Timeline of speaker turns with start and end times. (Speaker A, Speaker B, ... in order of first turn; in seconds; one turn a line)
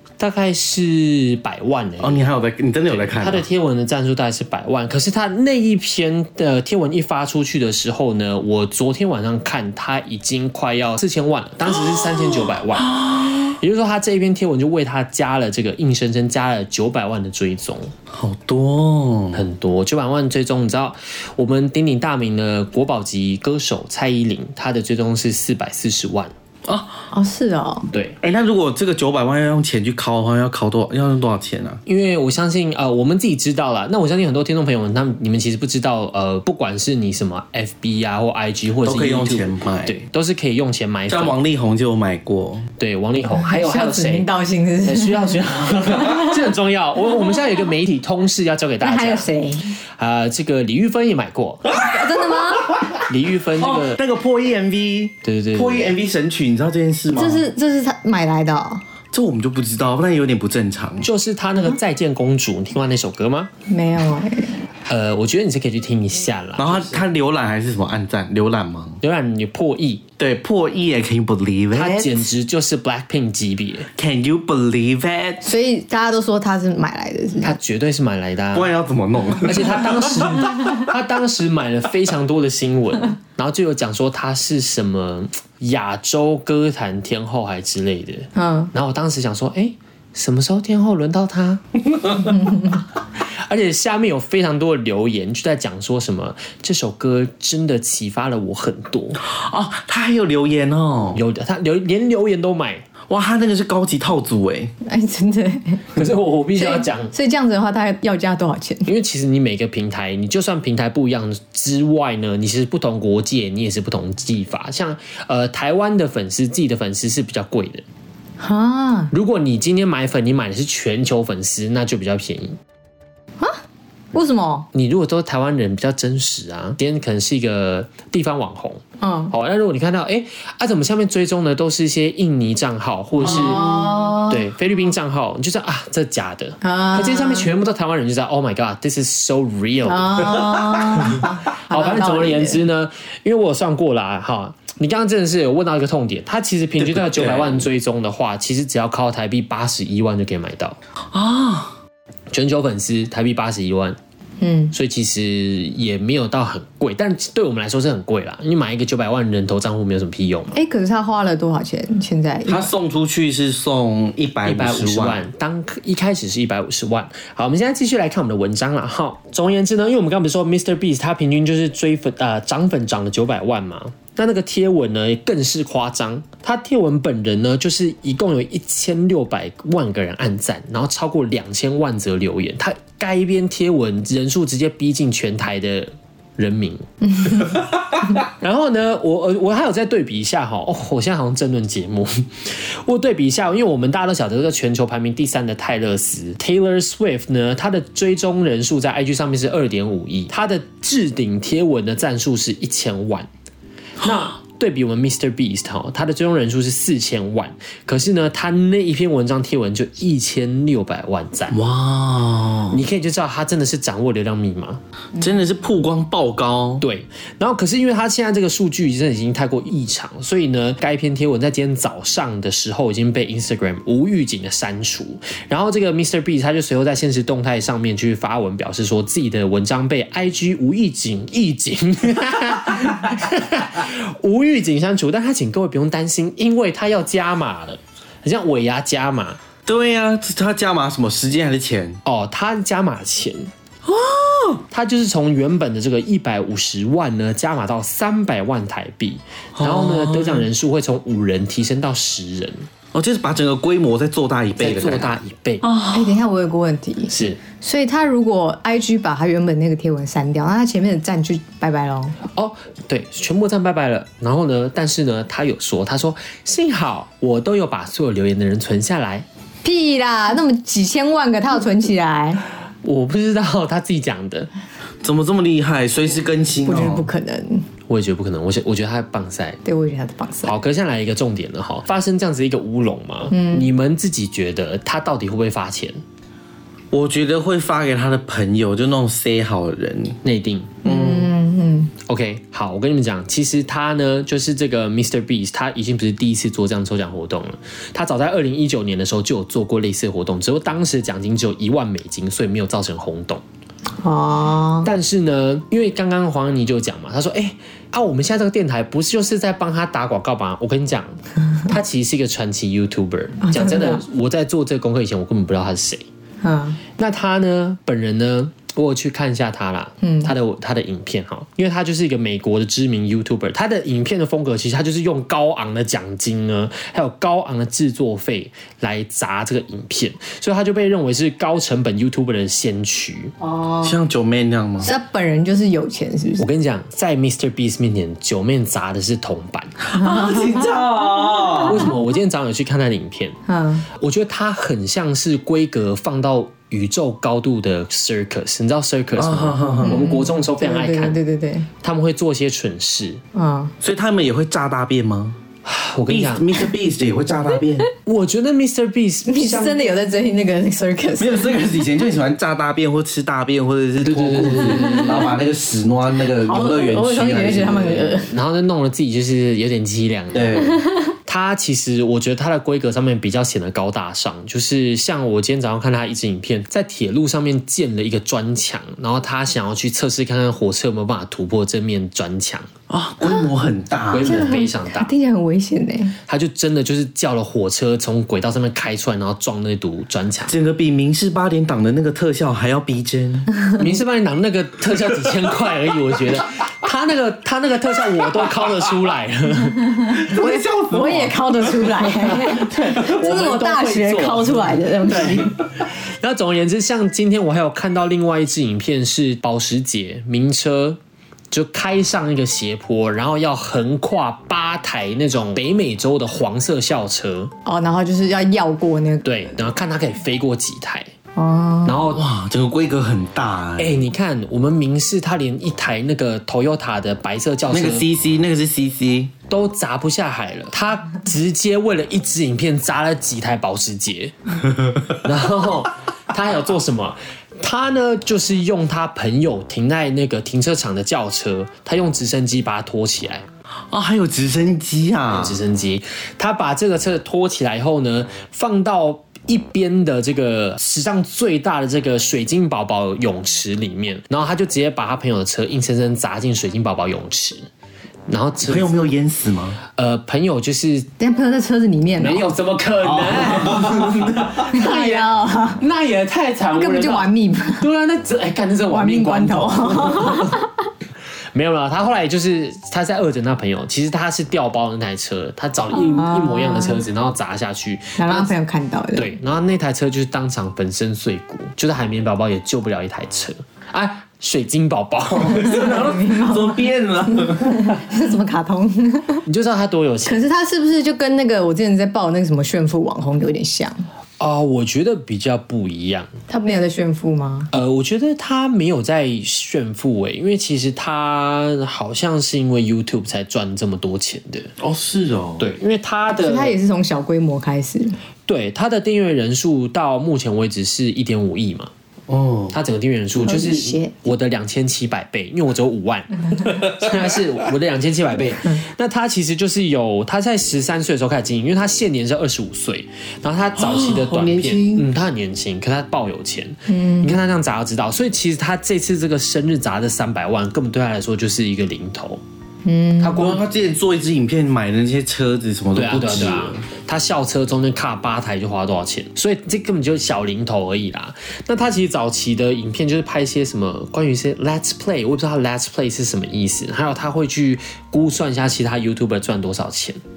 Speaker A: 0.2-2.2
Speaker B: 2.0-3.5
Speaker A: 2.9-17.9
Speaker B: 12.1-13.5
Speaker B: 18.1-19.4
Speaker A: 19.3-26.3
Speaker B: 26.6-27.0
Speaker C: 27.1-27.9
Speaker A: 27.9-28.2
Speaker B: 28.2-31.8
Speaker A: 31.9-41.4
Speaker B: 38.8-40.0
Speaker B: 41.1-42.7
Speaker A: 42.8-44.3
Speaker C: 43.3-46.3
Speaker A: 44.8-49.3
Speaker C: 48.8-49.8
Speaker A: 50.0-51.6
Speaker C: 51.7-52.8
Speaker A: 53.1-54.0
Speaker B: 53.6-57.5
Speaker A: 55.2-55.9
Speaker C: 57.1-58.8
Speaker B: 59.1-61.1
Speaker A: 61.0-63.5
Speaker C: 63.7-64.5
Speaker A: 64.9-67.0
Speaker B: 66.6-69.0
Speaker A: 69.0-70.0
Speaker B: 70.2-72.2
Speaker A: 71.7-73.9
Speaker B: 74.0-75.4
Speaker C: 75.4-77.5
Speaker A: 77.4-78.7
Speaker B: 78.5-80.7
Speaker A: 79.4-91.6
Speaker C: 88.3-88.7
Speaker C: 92.3-92.8
Speaker A: 92.6-99.2
Speaker B: 99.2-101.2
Speaker A: 101.1-102.9
Speaker B: 103.1-104.7
Speaker C: 104.8-105.9
Speaker A: 106.0-107.1
Speaker C: 106.5-108.9
Speaker A: 108.8-117.8
Speaker C: 118.4-119.1
Speaker A: 119.1-122.6
Speaker C: 124.1-124.7
Speaker A: 124.7-150.8
Speaker C: 129.0-129.3
Speaker C: 133.2-134.4
Speaker C: 136.6-137.5
Speaker C: 139.8-142.6
Speaker B: 146.8-147.7
Speaker B: 151.1-151.7
Speaker A: 152.3-154.0
Speaker C: 154.4-154.7
Speaker A: 154.7-160.6
Speaker C: 160.5-162.7
Speaker B: 162.4-165.2
Speaker A: 164.4-203.3
Speaker C: 187.2-187.5
Speaker A: 204.0-211.6
Speaker B: 211.5-212.8
Speaker A: 212.7-214.8
Speaker B: 215.2-216.8
Speaker A: 216.8-239.4
Speaker B: 239.7-242.0
Speaker A: 242.0-243.5
Speaker B: 243.8-244.6
Speaker A: 244.7-252.7
Speaker B: 249.5-250.5
Speaker B: 252.9-256.2
Speaker A: 254.6-255.6
Speaker C: 255.9-262.2
Speaker A: 257.1-257.4
Speaker A: 262.3-269.2
Speaker C: 269.6-272.4
Speaker A: 272.8-274.5
Speaker B: 275.0-277.1
Speaker C: 276.6-277.6
Speaker A: 277.9-279.6
Speaker C: 279.6-280.5
Speaker A: 280.4-286.0
Speaker C: 283.3-283.7
Speaker B: 286.9-290.2
Speaker A: 290.2-290.8
Speaker C: 290.8-291.9
Speaker B: 290.8-291.3
Speaker A: 292.0-303.4
Speaker C: 304.0-304.9
Speaker A: 304.8-316.0
Speaker C: 313.4-314.0
Speaker C: 316.4-316.8
Speaker A: 317.0-333.3
Speaker C: 320.0-320.3
Speaker C: 333.4-334.0
Speaker B: 333.8-334.9
Speaker C: 334.8-336.4
Speaker A: 336.4-339.7
Speaker B: 339.8-341.8
Speaker C: 339.9-340.7
Speaker A: 341.6-343.4
Speaker C: 343.5-343.9
Speaker A: 343.9-351.2
Speaker B: 349.2-350.0
Speaker C: 349.8-351.7
Speaker A: 351.8-353.2
Speaker C: 353.3-353.7
Speaker B: 353.8-355.4
Speaker A: 355.6-356.6
Speaker B: 356.1-357.9
Speaker A: 358.0-359.8
Speaker C: 359.3-361.5
Speaker B: 361.2-368.2
Speaker A: 364.0-365.3
Speaker C: 364.8-365.1
Speaker C: 366.4-368.3
Speaker A: 368.3-370.7
Speaker B: 370.3-370.8
Speaker A: 371.3-382.7
Speaker B: 382.9-384.4
Speaker A: 384.1-385.1
Speaker C: 384.2-386.1
Speaker A: 386.3-390.5
Speaker B: 390.5-393.5
Speaker A: 393.8-400.1
Speaker C: 399.8-405.5
Speaker B: 400.1-402.2
Speaker A: 402.3-405.5
Speaker A: 406.2-411.0
Speaker A: 411.5-417.5
Speaker C: 417.6-419.3
Speaker A: 419.2-421.1
Speaker C: 421.3-422.0
Speaker A: 421.8-422.2
Speaker B: 422.1-424.0
Speaker A: 423.8-428.0
Speaker B: 427.7-429.3
Speaker A: 429.5-434.5
Speaker A: 435.2-443.4
Speaker B: 443.9-445.6
Speaker A: 445.3-457.6
Speaker A: 458.3-458.9
Speaker B: 458.6-459.8
Speaker A: 459.9-461.1
Speaker C: 461.2-462.4
Speaker A: 462.2-467.3
Speaker B: 463.0-464.6
Speaker C: 464.7-465.8
Speaker C: 466.8-467.8
Speaker A: 467.8-470.6
Speaker C: 468.9-470.7
Speaker A: 471.5-478.5
Speaker C: 475.9-477.0
Speaker C: 478.2-479.3
Speaker A: 479.1-486.2
Speaker B: 485.4-487.9
Speaker C: 485.5-486.8
Speaker C: 487.3-489.4
Speaker A: 489.4-490.4
Speaker C: 490.2-494.0
Speaker A: 494.4-496.3
Speaker C: 496.5-497.7
Speaker A: 497.7-504.7
Speaker B: 504.8-505.7
Speaker A: 505.6-506.7
Speaker C: 506.4-508.1
Speaker A: 508.5-511.9
Speaker B: 512.3-512.8
Speaker A: 512.7-532.4
Speaker C: 513.4-514.2
Speaker B: 523.8-525.1
Speaker C: 526.9-527.3
Speaker C: 532.8-533.6
Speaker A: 533.2-533.6
Speaker B: 533.3-536.8
Speaker A: 535.9-550.2